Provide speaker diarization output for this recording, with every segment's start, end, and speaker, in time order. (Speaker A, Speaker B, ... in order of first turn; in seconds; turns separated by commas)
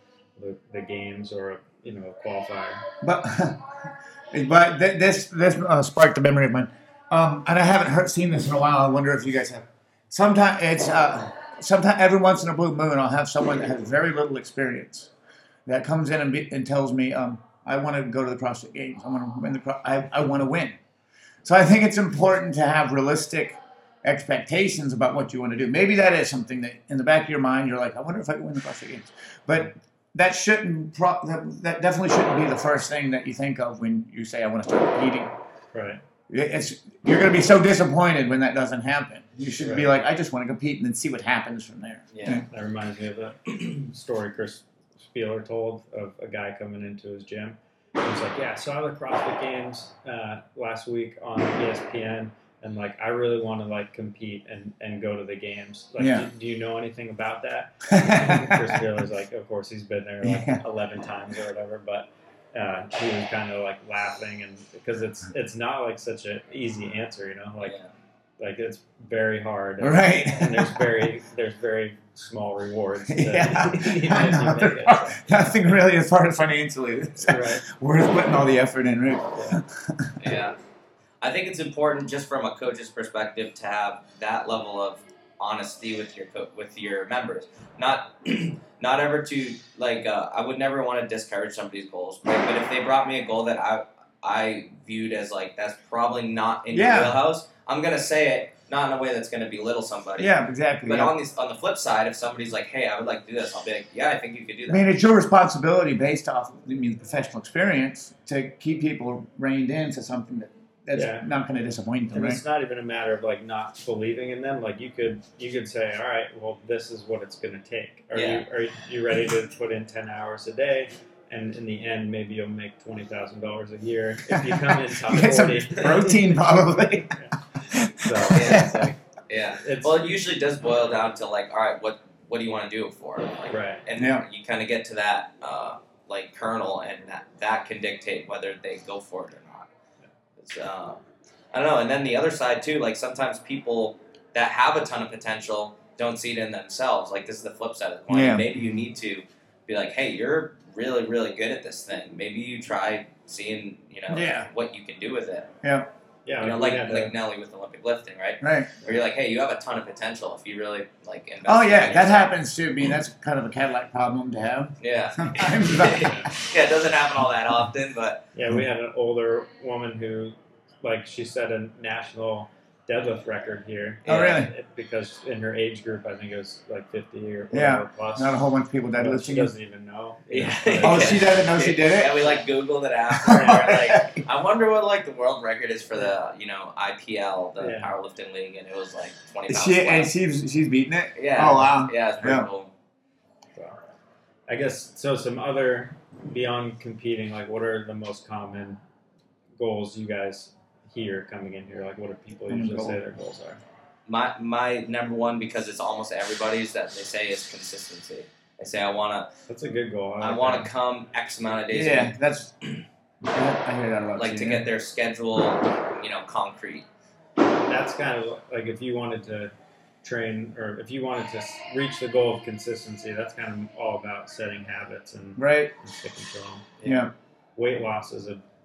Speaker A: 0.3-2.9, Speaker B: 3.0-15.1, Speaker B: 15.7-20.8, Speaker B: 21.4-35.3, Speaker A: 35.7-36.0, Speaker B: 36.3-42.4, Speaker A: 39.6-39.9, Speaker C: 42.1-42.4, Speaker A: 42.5-67.8, Speaker B: 56.0-56.3, Speaker B: 57.9-58.8, Speaker B: 60.2-60.6, Speaker C: 67.6-67.9, Speaker A: 68.4-75.4, Speaker B: 69.8-71.0, Speaker B: 73.1-80.3, Speaker A: 77.3-77.6, Speaker A: 79.3-79.6, Speaker C: 80.2-80.6, Speaker C: 81.2-100.3, Speaker B: 96.7-97.2, Speaker B: 100.2-101.1, Speaker C: 100.8-104.9, Speaker B: 104.7-112.4, Speaker A: 110.9-111.2, Speaker A: 112.1-126.4, Speaker C: 118.1-118.4, Speaker B: 124.3-128.9, Speaker A: 127.0-127.4, Speaker A: 128.0-128.9, Speaker C: 128.3-139.7, Speaker A: 129.6-130.1, Speaker A: 133.5-133.8, Speaker B: 133.9-134.2, Speaker C: 140.4-141.0, Speaker C: 141.5-155.5, Speaker B: 148.1-148.5, Speaker B: 154.1-154.5, Speaker B: 155.6-155.9, Speaker A: 156.2-157.1, Speaker C: 156.4-162.3, Speaker B: 158.4-158.7, Speaker B: 161.4-166.3, Speaker C: 164.8-168.2, Speaker A: 166.0-166.3, Speaker A: 168.3-178.3, Speaker C: 174.1-174.4, Speaker B: 174.1-174.5, Speaker B: 177.5-179.5, Speaker A: 179.0-181.3, Speaker C: 180.3-190.1, Speaker B: 180.8-182.3, Speaker B: 183.1-184.2, Speaker A: 183.3-183.7, Speaker A: 187.6-187.9, Speaker B: 189.5-192.5, Speaker C: 191.2-192.7, Speaker A: 194.5-198.8, Speaker A: 199.6-203.6, Speaker B: 202.5-203.0, Speaker C: 204.1-209.3, Speaker A: 209.5-210.7, Speaker C: 210.2-212.1, Speaker B: 211.7-212.7, Speaker B: 213.3-214.7, Speaker C: 214.2-216.8, Speaker A: 217.5-219.5, Speaker A: 220.0-228.4, Speaker B: 225.4-225.7, Speaker B: 226.8-227.1